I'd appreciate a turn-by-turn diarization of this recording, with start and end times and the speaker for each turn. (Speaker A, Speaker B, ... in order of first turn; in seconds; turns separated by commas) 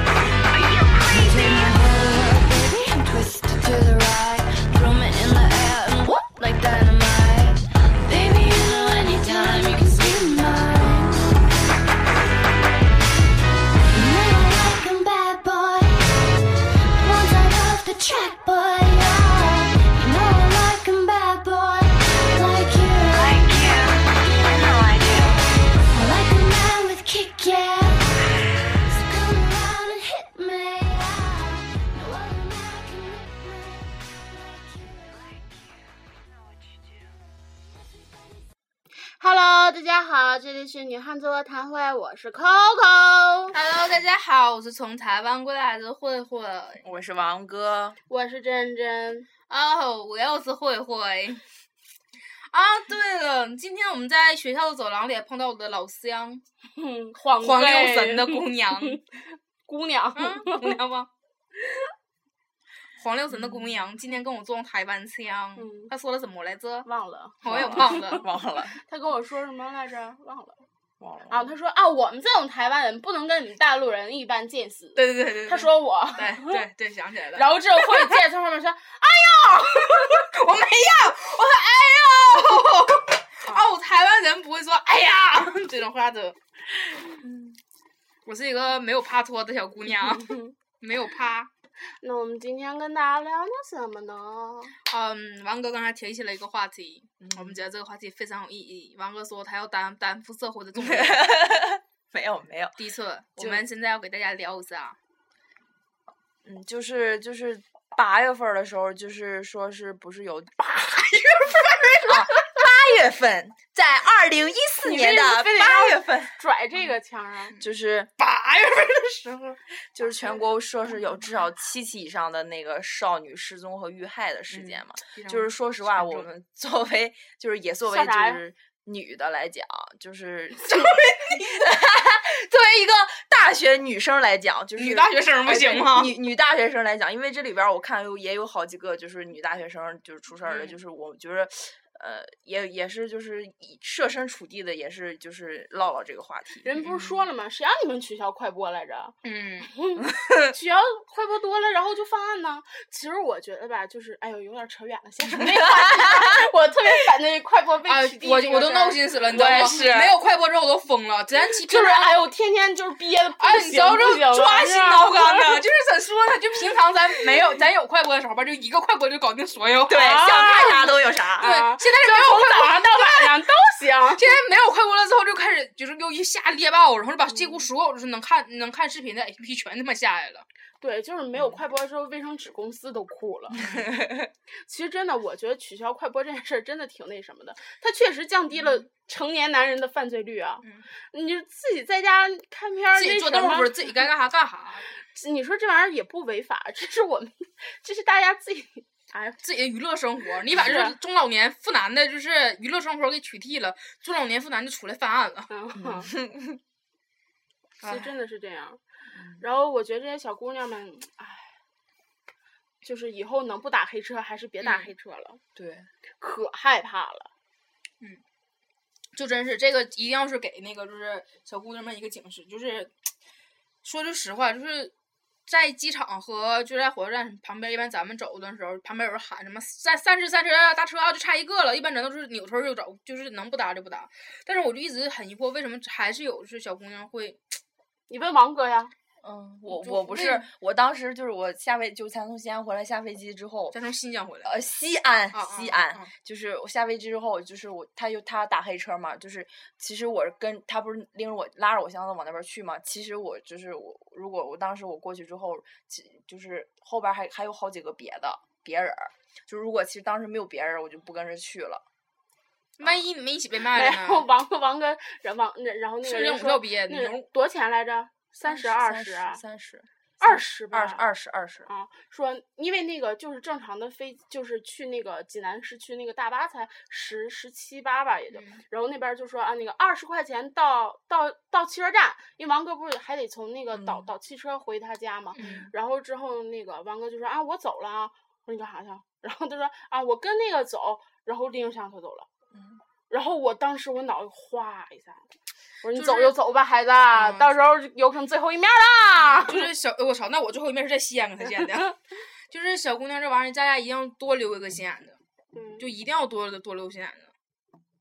Speaker A: 0.8-11.3, Speaker A: 13.9-16.1, Speaker A: 17.0-25.3, Speaker A: 25.9-35.5, Speaker B: 39.1-43.6, Speaker C: 43.5-46.8, Speaker D: 46.8-48.0, Speaker B: 48.1-49.3, Speaker C: 49.5-51.4, Speaker C: 52.5-56.4, Speaker B: 56.8-60.8, Speaker C: 57.4-59.0, Speaker C: 60.2-61.1, Speaker C: 63.0-66.9, Speaker D: 63.3-63.8, Speaker B: 65.6-65.9, Speaker B: 66.8-70.6, Speaker C: 67.4-68.2, Speaker D: 67.4-68.8, Speaker D: 71.0-71.5, Speaker B: 71.3-76.6, Speaker C: 75.0-78.1, Speaker B: 77.3-80.3, Speaker C: 79.9-86.4, Speaker D: 87.2-87.5, Speaker C: 88.3-91.5, Speaker B: 90.0-90.5, Speaker B: 92.0-94.8, Speaker C: 94.9-101.4, Speaker D: 97.2-97.6, Speaker D: 100.8-102.8, Speaker C: 102.8-105.0, Speaker D: 103.4-103.7, Speaker D: 106.4-116.4, Speaker B: 114.8-117.6, Speaker D: 117.6-118.2, Speaker C: 118.2-119.6, Speaker D: 120.0-146.7, Speaker C: 124.5-126.3, Speaker B: 127.8-128.4, Speaker C: 130.6-131.4, Speaker C: 134.8-136.2, Speaker C: 140.4-140.8, Speaker B: 146.6-149.2, Speaker C: 146.8-147.2, Speaker C: 149.2-149.7, Speaker B: 149.7-159.8, Speaker D: 150.0-150.6, Speaker D: 155.4-156.5, Speaker C: 157.9-162.2, Speaker D: 159.3-160.2, Speaker B: 161.6-165.6, Speaker C: 163.4-170.7, Speaker D: 169.9-171.5, Speaker B: 170.0-174.3, Speaker C: 171.4-173.4, Speaker C: 174.2-180.5, Speaker B: 177.3-177.7, Speaker B: 180.8-183.6, Speaker D: 183.6-184.3, Speaker C: 183.6-183.9, Speaker B: 184.5-193.9, Speaker C: 188.6-188.8, Speaker C: 190.6-190.9, Speaker C: 192.9-194.9, Speaker B: 195.1-199.4, Speaker C: 199.4-205.5, Speaker B: 200.5-201.0, Speaker B: 205.5-206.1, Speaker D: 205.8-206.6, Speaker C: 207.8-208.1, Speaker B: 207.8-208.8, Speaker D: 209.1-209.4, Speaker B: 209.4-211.5, Speaker B: 212.8-215.4, Speaker C: 214.6-214.9, Speaker D: 215.6-215.9, Speaker B: 216.2-217.3, Speaker C: 219.1-222.9, Speaker C: 223.8-224.9, Speaker C: 225.5-237.6, Speaker B: 238.1-238.9, Speaker D: 239.2-243.8, Speaker C: 239.7-240.5, Speaker C: 243.7-244.6, Speaker D: 244.4-261.8, Speaker C: 245.3-246.1, Speaker C: 262.8-264.3, Speaker B: 263.7-269.4, Speaker C: 266.0-267.3, Speaker D: 268.5-271.7, Speaker B: 270.2-271.0, Speaker B: 271.7-292.3, Speaker C: 278.3-278.6, Speaker D: 283.7-284.1, Speaker C: 285.4-285.7, Speaker D: 285.4-285.7, Speaker D: 292.5-292.8, Speaker B: 293.1-295.2, Speaker B: 295.8-299.7, Speaker C: 295.9-296.4, Speaker C: 297.1-297.5, Speaker C: 299.2-302.0, Speaker B: 301.4-301.9, Speaker C: 302.5-305.2, Speaker B: 305.5-305.9, Speaker C: 305.8-307.3